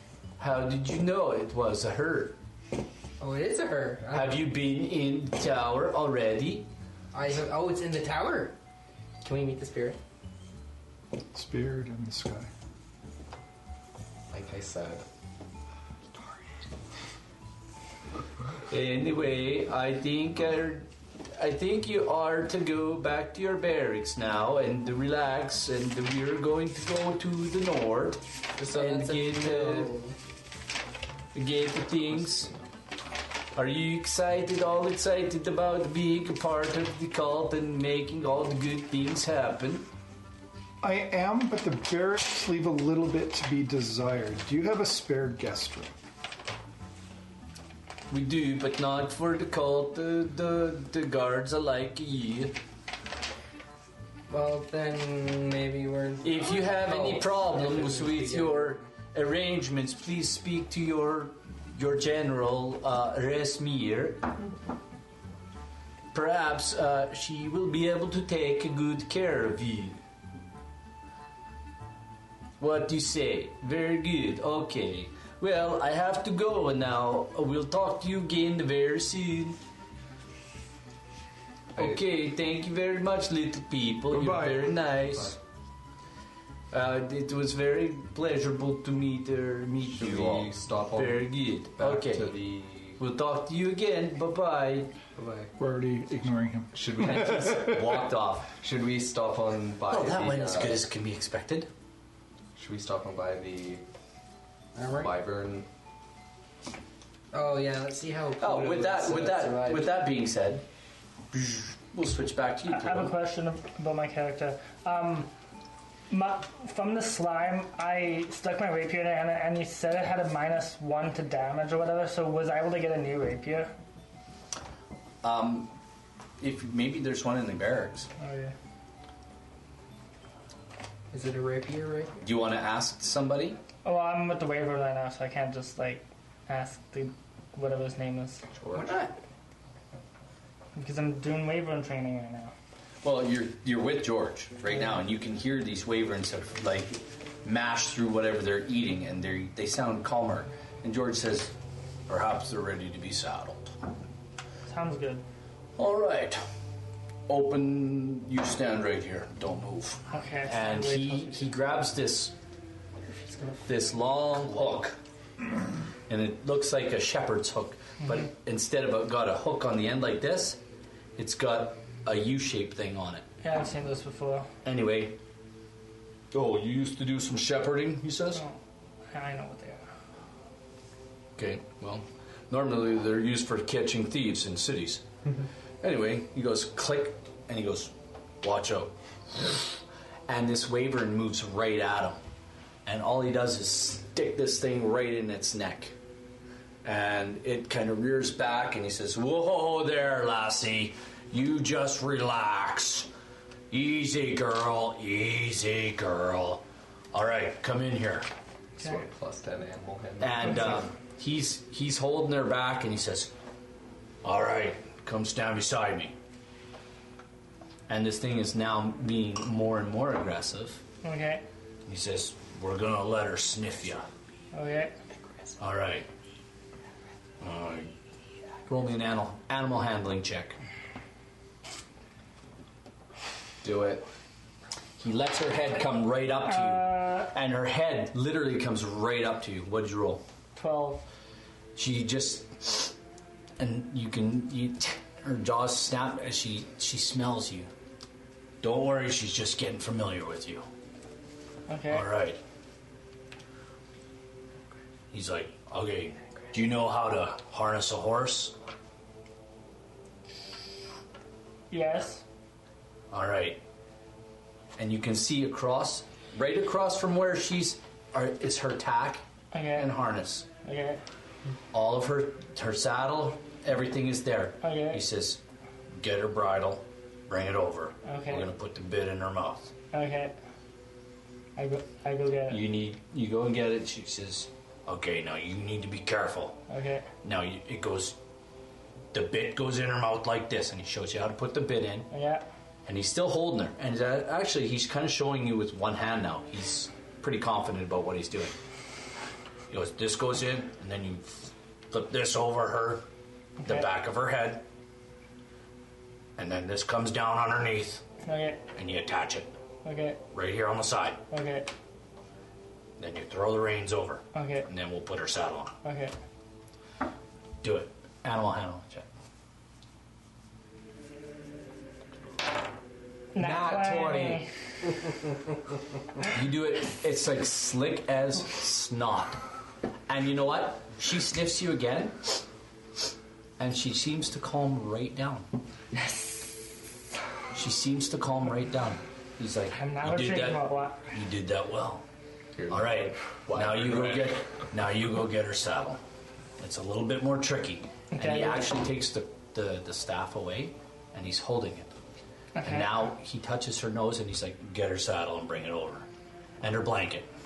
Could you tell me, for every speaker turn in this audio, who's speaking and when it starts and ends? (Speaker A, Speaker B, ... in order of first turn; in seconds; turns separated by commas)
Speaker A: 0.4-2.4, Speaker B: 3.2-4.5, Speaker A: 4.1-6.7, Speaker B: 7.1-8.6, Speaker B: 9.2-10.0, Speaker C: 11.3-12.5, Speaker D: 14.3-15.1, Speaker A: 18.7-30.0, Speaker B: 28.6-30.1, Speaker A: 31.3-32.5, Speaker A: 33.5-39.9, Speaker C: 40.8-45.9, Speaker A: 48.1-52.6, Speaker B: 54.3-58.8, Speaker A: 56.2-64.3, Speaker A: 66.1-70.0, Speaker A: 72.6-79.6, Speaker A: 81.8-85.4, Speaker D: 84.1-85.4, Speaker A: 86.7-92.4, Speaker D: 89.9-93.0, Speaker A: 93.0-94.9, Speaker B: 95.2-95.5, Speaker D: 95.2-95.5, Speaker C: 95.6-97.8, Speaker D: 96.7-98.1, Speaker A: 97.0-98.5, Speaker D: 98.6-100.8, Speaker A: 99.9-101.7, Speaker D: 102.5-103.8, Speaker B: 104.7-105.1, Speaker D: 105.0-105.7, Speaker B: 107.3-109.9, Speaker A: 108.4-110.6, Speaker A: 111.3-113.1, Speaker E: 112.7-115.3, Speaker E: 116.1-123.7, Speaker A: 125.2-125.7, Speaker A: 126.4-128.1, Speaker E: 128.2-128.5, Speaker B: 131.1-132.2, Speaker A: 132.2-133.6, Speaker E: 133.8-138.4, Speaker A: 138.6-138.9, Speaker B: 138.7-139.1, Speaker E: 140.7-142.5, Speaker A: 143.0-151.5, Speaker A: 152.1-153.7, Speaker E: 154.7-155.2, Speaker A: 155.8-156.4, Speaker A: 157.3-162.3, Speaker E: 160.1-161.5, Speaker A: 163.7-164.9, Speaker A: 166.1-170.6, Speaker A: 171.2-173.2, Speaker E: 173.4-174.5, Speaker A: 174.6-175.2, Speaker A: 176.3-178.4, Speaker E: 179.1-179.9, Speaker A: 181.4-185.0, Speaker A: 185.8-189.8, Speaker A: 190.3-192.2, Speaker A: 192.8-195.9, Speaker A: 196.8-203.1, Speaker A: 203.7-208.3, Speaker D: 208.8-210.8, Speaker A: 210.2-213.3, Speaker A: 214.2-216.1, Speaker A: 217.9-220.8, Speaker E: 221.0-221.4, Speaker A: 221.9-224.1, Speaker E: 224.5-224.9, Speaker A: 225.6-226.1, Speaker A: 227.4-227.9, Speaker A: 228.7-230.6, Speaker D: 233.6-234.1, Speaker A: 235.0-240.2, Speaker E: 236.5-237.3, Speaker E: 240.6-241.1, Speaker A: 241.8-242.9, Speaker A: 243.6-247.7, Speaker A: 248.6-250.6, Speaker E: 251.7-252.1, Speaker A: 251.9-252.4, Speaker A: 255.1-258.6, Speaker E: 261.7-262.2, Speaker A: 263.1-263.6, Speaker A: 264.8-270.4, Speaker E: 269.5-269.9, Speaker E: 270.6-271.0, Speaker A: 271.7-275.4, Speaker E: 274.6-275.0, Speaker A: 275.9-279.7, Speaker E: 278.0-278.5, Speaker E: 279.9-280.3, Speaker E: 281.6-282.6, Speaker A: 282.5-286.6, Speaker E: 286.7-287.1, Speaker A: 287.2-288.1, Speaker A: 289.1-292.1, Speaker E: 292.1-292.4, Speaker A: 292.9-298.6, Speaker A: 299.7-303.1, Speaker E: 303.6-303.9, Speaker A: 303.6-304.6, Speaker A: 306.4-308.0, Speaker E: 308.2-308.6, Speaker A: 308.7-309.6, Speaker E: 309.8-310.2, Speaker A: 310.3-311.2, Speaker E: 311.3-311.7, Speaker A: 313.0-315.7, Speaker E: 314.3-314.7, Speaker E: 315.8-316.1, Speaker A: 317.6-319.1, Speaker E: 323.3-324.9, Speaker D: 323.4-324.4, Speaker A: 326.3-329.4, Speaker A: 330.1-332.4, Speaker A: 333.6-335.5, Speaker E: 335.9-336.6, Speaker A: 337.5-342.0, Speaker E: 339.7-341.1, Speaker D: 342.6-344.3, Speaker A: 342.7-346.0, Speaker A: 346.6-351.9, Speaker E: 348.1-348.6, Speaker E: 352.6-352.9, Speaker A: 352.6-356.1, Speaker A: 356.6-357.3